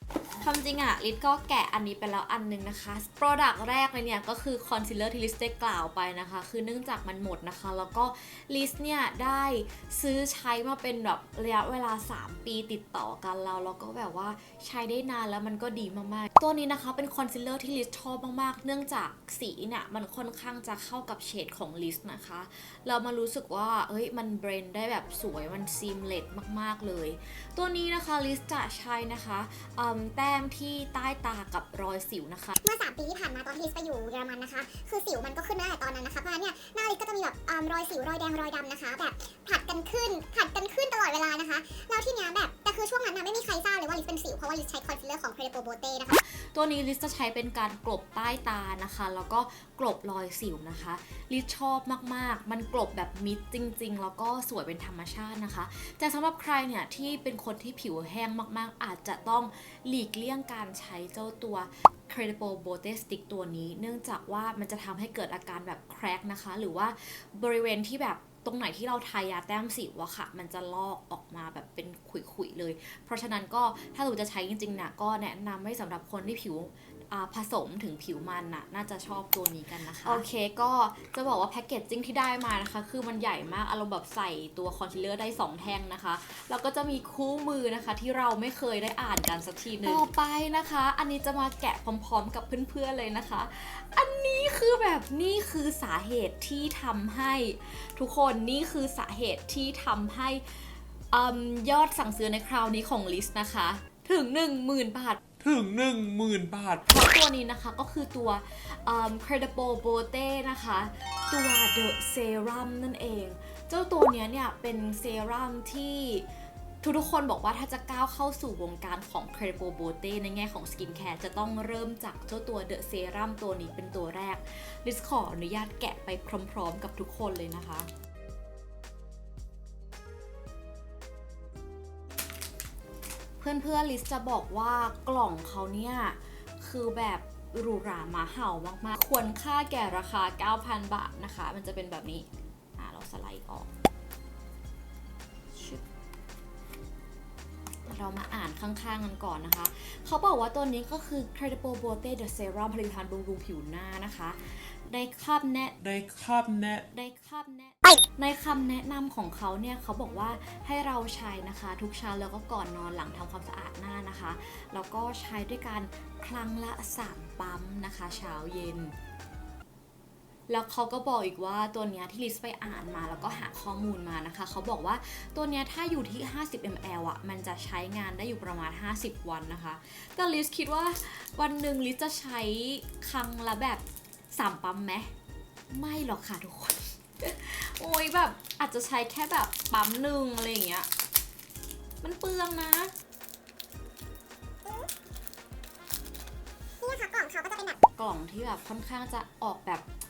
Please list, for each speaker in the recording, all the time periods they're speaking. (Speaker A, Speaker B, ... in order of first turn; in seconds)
Speaker A: 0.4-32.6, 46.2-105.2, 106.9-116.2, 116.8-127.9, 133.4-143.7, 145.6-145.8, 147.8-155.8, 156.9-168.9, 170.5-185.1, 185.7-190.9, 192.0-192.9, 198.0-199.8
Speaker B: 32.6-46.2, 196.8-197.8
Speaker C: 105.4-106.8, 155.8-156.9